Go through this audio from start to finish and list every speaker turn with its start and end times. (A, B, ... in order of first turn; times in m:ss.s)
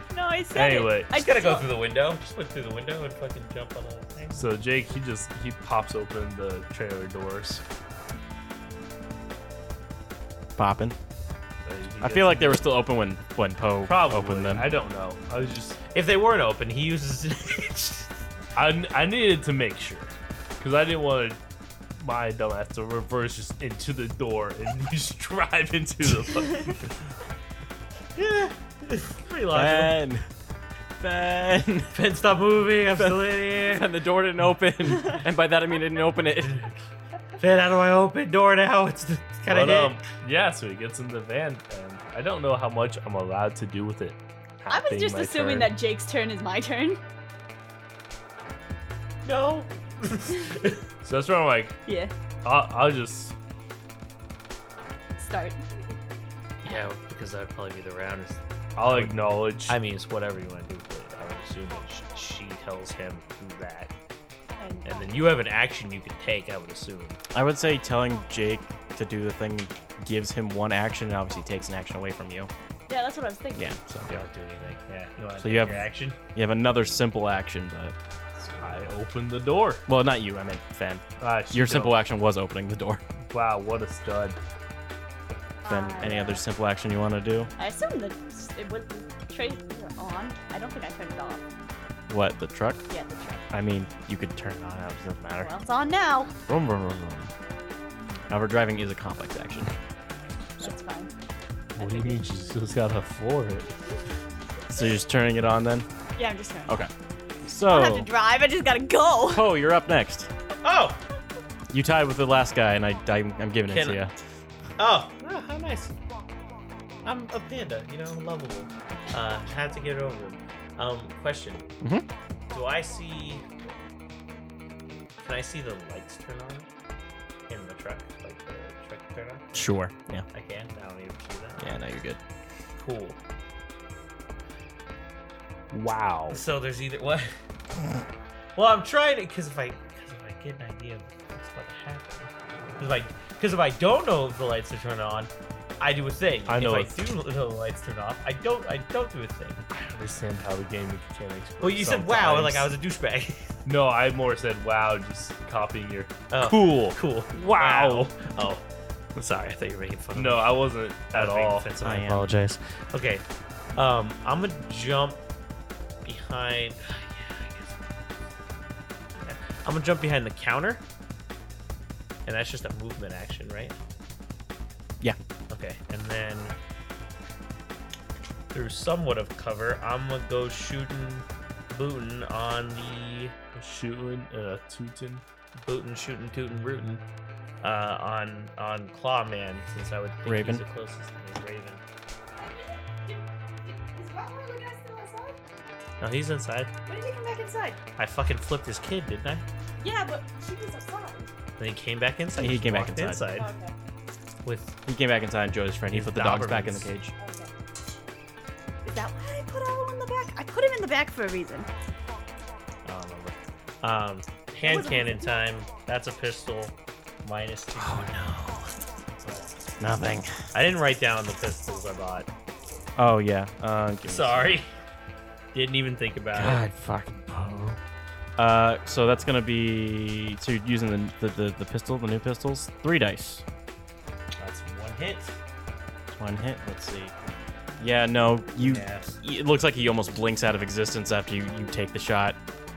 0:00.1-0:01.6 A
0:00.5-0:01.1 B
0:01.1-0:04.4 C
0:04.3-0:07.6 B
0:10.6-0:11.0 D
0:11.6-0:12.6 B
0:12.0-0:14.7 D
0:13.9-0:15.8 B
0:15.9-0:18.1 C
0:18.5-0:21.4 B
0:22.0-0:26.8 B
0:28.2-0:30.0 C
0:29.5-0:30.3 D
0:31.0-0:32.0 D
0:31.9-0:33.8 C
0:33.0-0:36.7 D
0:37.4-0:40.0 C
0:39.5-0:45.7 B
0:44.7-0:47.0 A
0:49.2-0:50.8 C
0:51.0-0:51.8 B
0:51.8-0:52.1 A
0:52.4-0:53.3 B
0:55.2-0:55.6 A
0:56.6-1:03.9 C
0:58.8-0:59.8 B
1:04.6-1:05.1 A
1:04.8-1:07.2 C
1:07.3-1:12.5 D
1:12.9-1:13.8 A
1:13.5-1:14.1 D
1:14.1-1:16.2 C
1:15.4-1:18.0 D
1:18.4-1:19.8 B
1:19.9-1:23.0 D
1:21.2-1:22.0 B
1:23.2-1:24.4 B
1:25.6-1:26.4 A
1:25.6-1:27.5 D
1:27.6-1:31.4 A
1:32.1-1:32.8 D
1:32.9-1:33.4 A
1:33.5-1:35.5 D
1:35.4-1:36.3 A
1:36.5-1:37.3 D
1:38.3-1:39.7 D
1:40.6-1:41.1 A
1:41.7-1:43.7 B
1:41.8-1:42.5 A
1:44.7-1:45.9 D
1:46.2-1:46.8 A
1:47.4-1:48.1 D
1:47.7-1:49.5 A
1:49.3-1:50.3 D
1:50.6-1:51.0 C
1:51.7-1:54.1 D
1:53.7-1:54.0 C
1:54.8-1:55.9 C
1:57.0-2:01.7 C
2:02.5-2:03.4 C
2:05.2-2:06.7 C
2:07.5-2:09.6 C
2:09.5-2:10.2 D
2:10.3-2:11.6 C
2:11.6-2:12.2 D
2:12.8-2:13.2 C
2:15.7-2:16.4 B
2:16.3-2:17.3 C
2:18.6-2:29.6 C
2:26.5-2:27.0 B
2:29.7-2:32.7 B
2:31.6-2:33.5 C
2:33.6-2:38.2 B
2:36.3-2:38.6 C
2:39.2-2:40.6 C
2:40.1-2:41.7 B
2:41.1-2:43.2 C
2:41.8-2:42.3 D
2:43.8-2:45.2 C
2:46.0-2:47.8 C
2:49.2-2:50.8 C
2:52.2-2:53.8 C
2:55.5-2:56.5 C
2:58.5-3:03.4 C
3:03.5-3:05.2 B
3:05.6-3:07.0 C
3:07.6-3:11.8 C
3:10.2-3:10.6 D
3:12.4-3:15.4 A
3:16.0-3:16.7 C
3:16.8-3:17.8 A
3:18.0-3:19.4 C
3:19.8-3:21.3 A
3:21.6-3:23.5 C
3:22.4-3:23.2 D
3:23.3-3:23.8 A
3:24.4-3:24.8 C
3:24.8-3:27.1 D
3:25.9-3:26.9 C
3:27.2-3:27.5 A
3:28.8-3:31.7 A
3:32.8-3:38.2 C
3:34.6-3:35.3 A
3:37.8-3:38.7 D
3:39.2-3:39.5 C
3:39.8-3:40.3 D
3:40.5-3:42.3 C
3:43.0-3:44.6 D
3:44.1-3:44.7 C
3:45.5-3:46.6 C
3:46.3-3:47.8 D
3:48.4-3:53.4 D
3:54.4-3:55.4 C
3:56.1-3:57.1 D
3:57.8-4:02.4 D
3:58.6-3:59.2 C